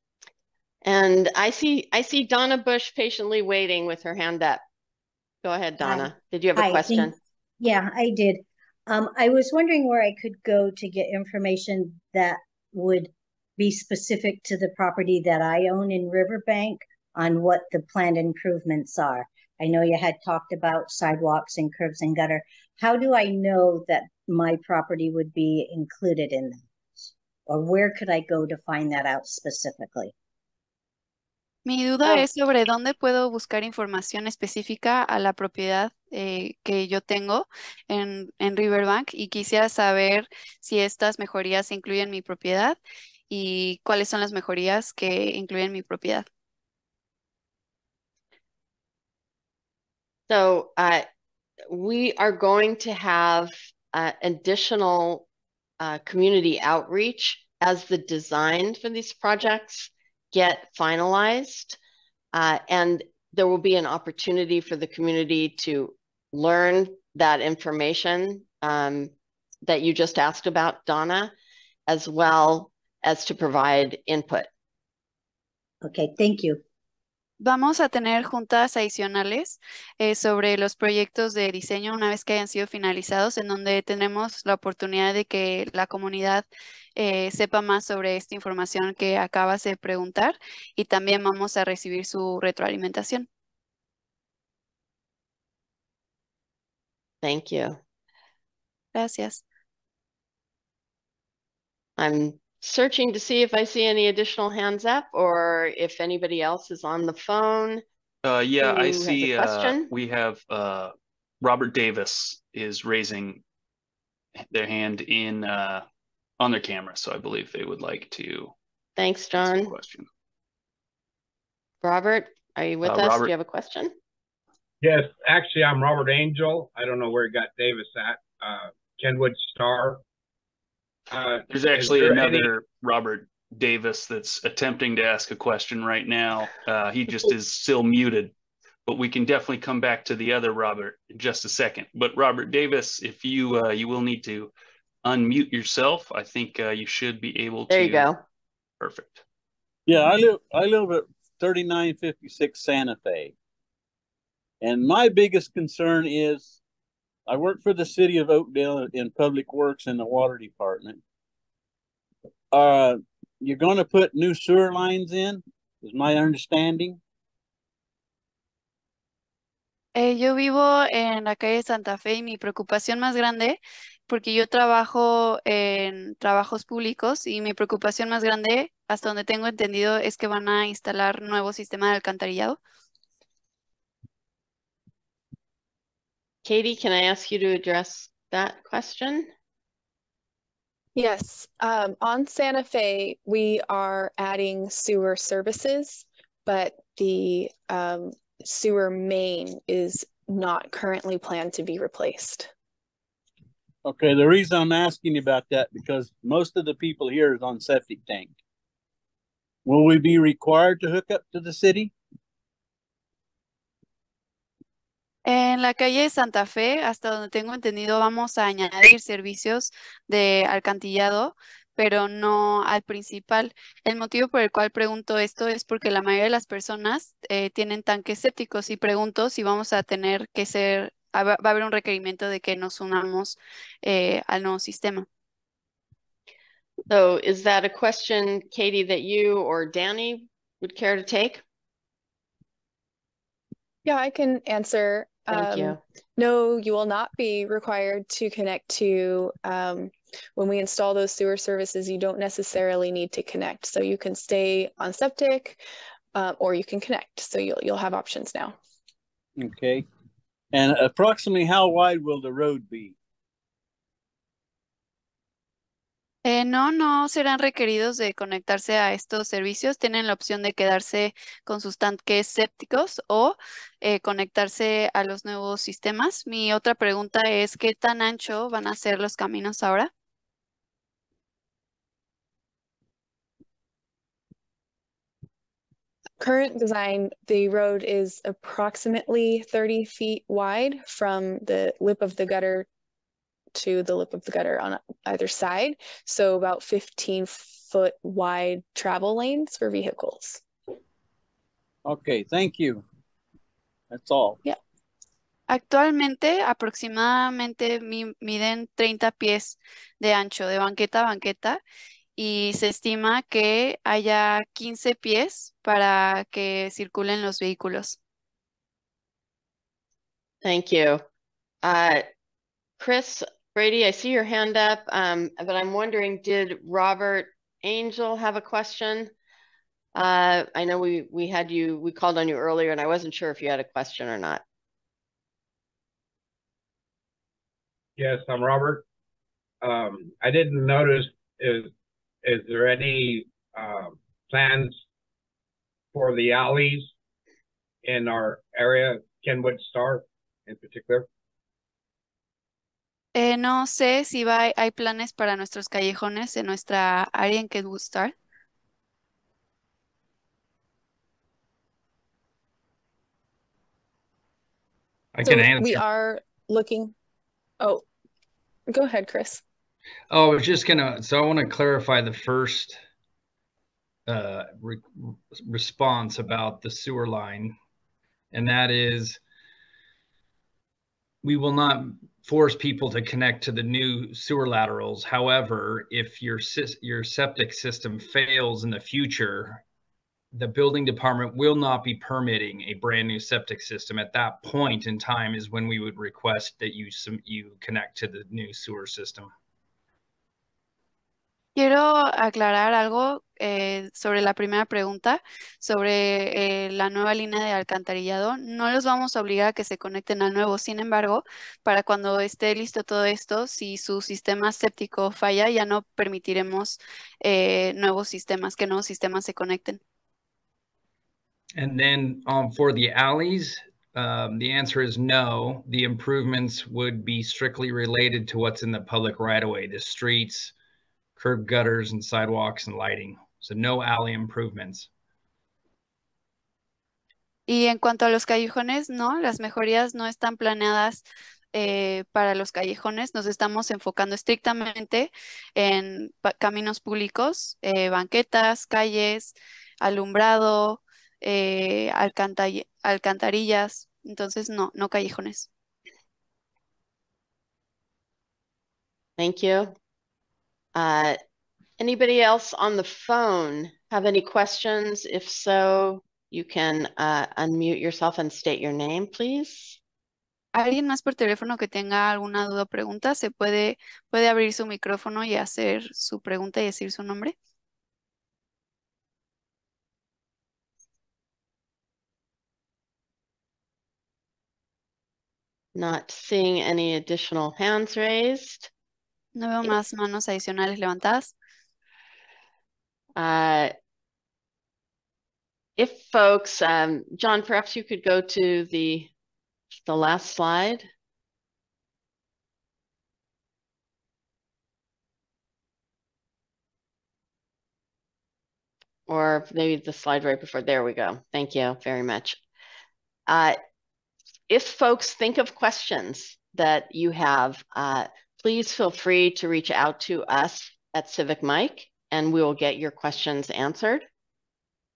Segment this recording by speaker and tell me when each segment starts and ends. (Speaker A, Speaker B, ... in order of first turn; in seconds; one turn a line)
Speaker A: 0.8-4.6
Speaker A: 5.4-7.2
Speaker B: 5.8-30.1
Speaker C: 31.6-42.8
Speaker C: 43.3-46.3
Speaker A: 50.3-51.0
Speaker A: 51.7-55.3
Speaker A: 55.8-61.8
Speaker A: 62.3-69.1
Speaker A: 69.6-71.3
Speaker A: 71.9-74.5
Speaker B: 75.8-76.6
Speaker C: 77.4-86.5
Speaker C: 87.0-93.3
Speaker A: 97.2-97.8
Speaker C: 99.0-99.4
Speaker A: 102.0-107.8
Speaker D: 108.2-113.4
Speaker A: 108.6-109.9
Speaker D: 114.4-115.8
Speaker D: 116.4-118.5
Speaker A: 119.0-119.7
Speaker D: 119.4-120.1
Speaker A: 121.8-123.9
Speaker D: 122.8-123.3
Speaker E: 124.8-130.0
Speaker E: 131.1-132.5
Speaker D: 131.5-138.3
Speaker D: 138.9-144.5
Speaker D: 145.0-148.1
Speaker A: 147.7-148.2
Speaker D: 148.8-149.2
Speaker F: 149.9-153.3
Speaker F: 154.6-156.6
Speaker F: 157.3-161.0
Speaker F: 162.5-167.0
Speaker C: 169.9-182.6
Speaker A: 186.4-189.3
Speaker G: 190.9-202.5
Speaker F: 203.8-208.3
Speaker F: 209.7-211.9
Speaker C: 215.2-235.1
Speaker A: 236.9-241.4
Speaker G: 243.8-255.6
Speaker A: 245.3-245.8
Speaker G: 256.1-258.6
Speaker F: 259.4-259.9
Speaker F: 260.5-262.9
Speaker C: 266.2-279.9
Speaker G: 286.2-292.7
Speaker G: 293.6-300.4
Speaker F: 301.9-302.9
Speaker F: 303.9-304.4
Speaker C: 305.5-311.6
Speaker C: 312.2-318.0
Speaker A: 320.4-321.0
Speaker A: 321.6-322.0
Speaker A: 322.8-329.1
Speaker A: 329.9-334.4
Speaker E: 338.0-338.9
Speaker E: 339.6-341.7
Speaker E: 342.2-344.8
Speaker E: 345.9-346.9
Speaker E: 347.8-351.1
Speaker C: 353.1-358.1
Speaker H: 365.1-365.8
Speaker G: 365.2-366.9
Speaker G: 367.6-367.9
Speaker G: 368.7-369.4
Speaker H: 370.1-372.8
Speaker H: 374.1-377.6
Speaker H: 378.3-379.2
Speaker H: 381.2-389.6
Speaker H: 390.3-399.3
Speaker C: 401.6-419.8
Speaker H: 421.6-430.5
Speaker H: 431.2-434.9
Speaker C: 437.5-455.5
Speaker A: 459.2-459.7
Speaker A: 460.8-461.2
Speaker A: 461.8-469.8
Speaker C: 470.5-477.3
Speaker A: 485.8-488.7
Speaker C: 489.4-491.3
Speaker A: 493.2-493.7
Speaker A: 495.8-499.1
Speaker A: 499.9-500.9
Speaker A: 509.1-512.4
Speaker A: 513.3-513.6
Speaker A: 514.5-524.0